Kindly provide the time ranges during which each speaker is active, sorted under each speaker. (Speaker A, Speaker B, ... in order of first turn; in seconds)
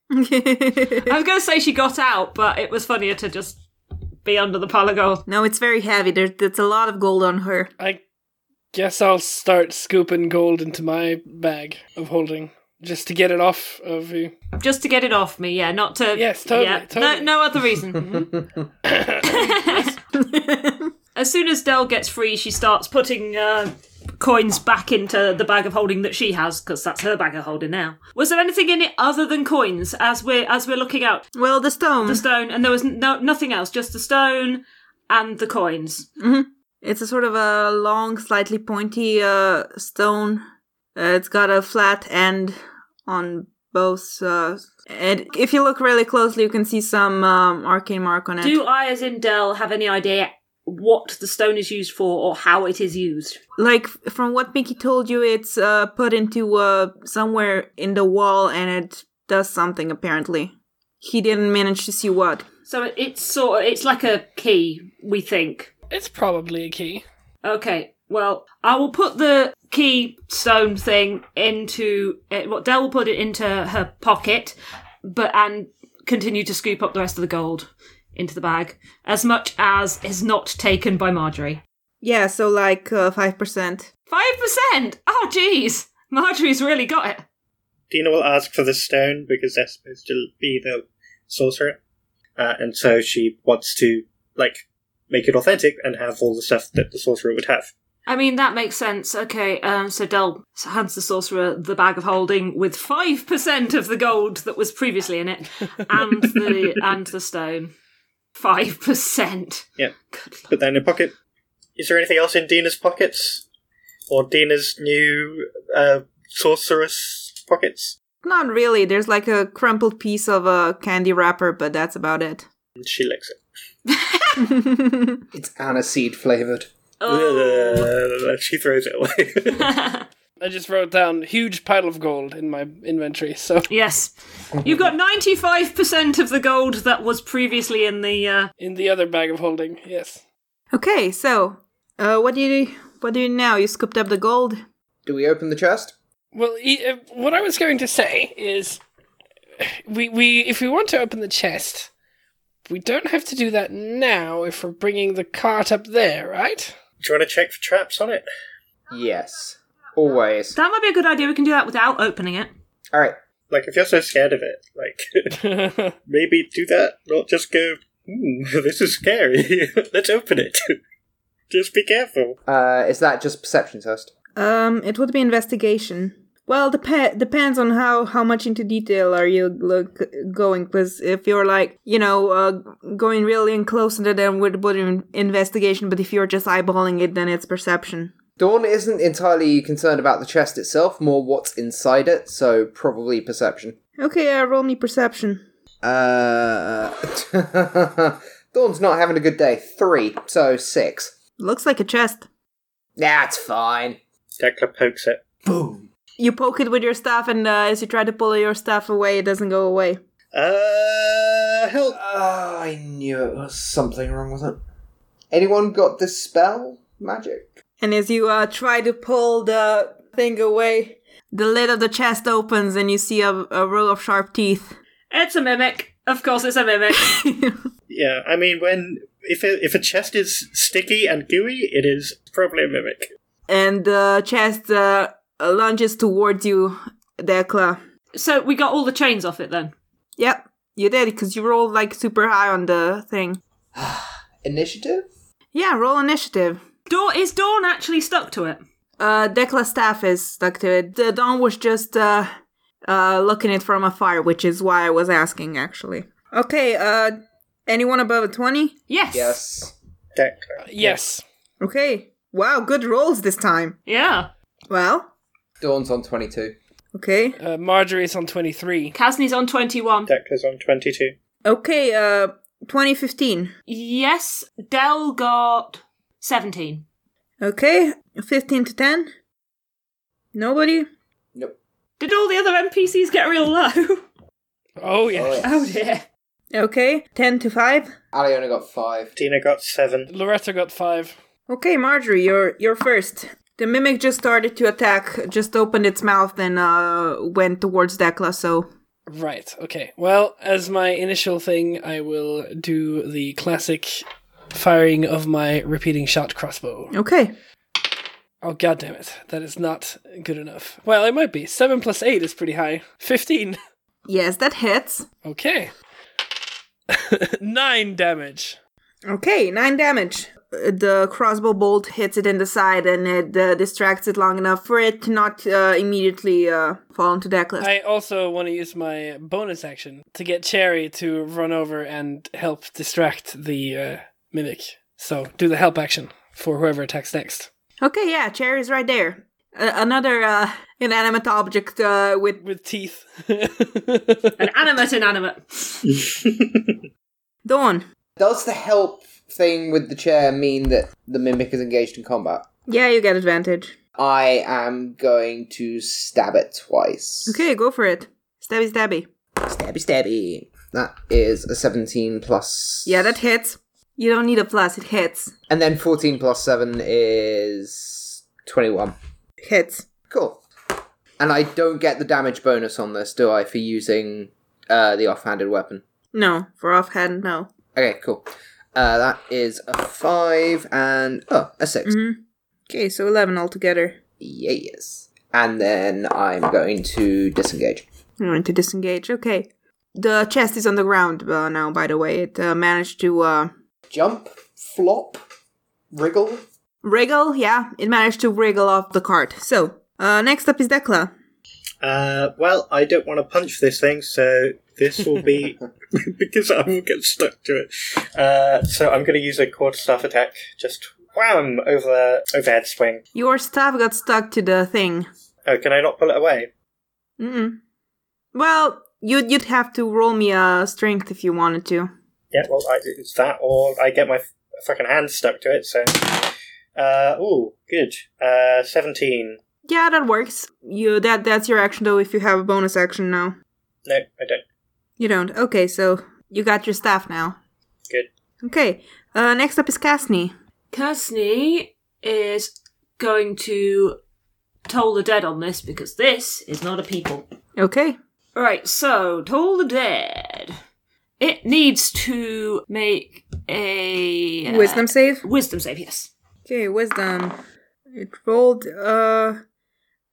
Speaker A: 0.1-1.1, 5.3-7.7, 20.1-20.9, 31.4-32.2, 36.2-40.4, 41.0-48.6, 53.6-62.5, 82.0-83.9, 118.2-122.5, 124.4-125.2, 140.7-144.6, 174.4-188.1, 194.0-195.4, 201.4-202.3, 206.2-210.0, 217.8-224.8, 227.0-227.6, 233.5-237.8, 240.2-243.4, 245.5-246.6, 249.0-252.3, 252.9-258.8, 261.6-263.8, 264.7-265.1, 266.9-267.4, 271.4-273.5, 277.4-279.1, 280.3-280.9, 286.5-287.9, 291.5-298.7, 306.9-307.3, 314.1-315.1, 319.1-327.7, 337.8-342.4, 347.4-347.9, 352.7-353.7, 357.3-359.1, 362.9-365.3, 369.4-369.9, 376.1-377.5, 381.9-384.0, 388.2-393.5, 396.8-401.1, 413.1-415.1, 417.2-417.6, 418.3-421.9, 429.7-433.3, 435.0-437.4, 438.4-440.3, 447.6-448.0, 454.5-455.2, 456.5-457.4, 457.9-459.4
Speaker B: 1.0-3.6, 4.2-5.2, 14.6-18.1, 19.2-19.9, 21.1-31.3, 32.0-36.1, 48.4-53.4, 62.7-65.7, 67.4-81.6, 84.1-87.2, 98.1-107.7, 108.4-110.5, 123.9-124.5, 127.0-127.9, 129.5-130.1, 133.7-138.5, 160.6-162.5, 225.1-227.1, 238.1-239.7, 246.9-248.6, 258.9-259.4, 263.9-264.3, 268.9-270.1, 273.7-276.9, 282.0-284.1, 285.4-286.1, 344.4-345.9, 440.7-444.0, 444.7-447.3, 448.4-450.6, 451.2-456.1
Speaker C: 8.7-14.3, 16.1-17.3, 18.0-18.3, 18.9-20.0, 65.9-67.0, 130.4-133.7, 138.6-140.2, 146.3-148.8, 149.6-151.9, 152.7-156.8, 165.3-166.0, 260.6-261.2, 267.4-268.9, 284.8-285.4, 290.1-291.1, 299.1-306.9, 308.4-313.6, 315.2-315.7, 316.9-318.6, 327.6-337.5, 342.4-344.4
Speaker D: 18.1-18.6, 125.3-126.7, 145.1-145.9, 158.9-160.6, 172.5-174.1, 188.4-193.8, 195.8-201.2, 203.0-204.0, 205.4-205.9, 211.9-214.6, 215.3-217.5, 243.7-245.1, 259.1-259.7, 265.6-266.6, 285.1-285.8, 288.1-289.1, 348.2-352.5, 354.0-357.4, 359.4-363.1, 365.5-368.9, 370.1-370.4, 371.2-375.8, 377.8-381.9, 384.2-387.9, 393.9-395.2, 395.9-396.4
Speaker E: 87.9-91.8, 92.4-97.7, 110.5-111.2, 111.8-113.5, 114.1-118.0, 122.8-123.4, 127.1-129.7, 157.0-158.2, 163.5-165.4, 166.1-170.8, 171.5-172.4, 204.4-205.2, 210.3-212.0, 227.9-233.1, 260.2-260.6, 270.1-271.1, 289.2-290.1, 345.9-346.7, 401.8-413.0, 415.5-416.5, 422.3-429.4, 433.9-434.4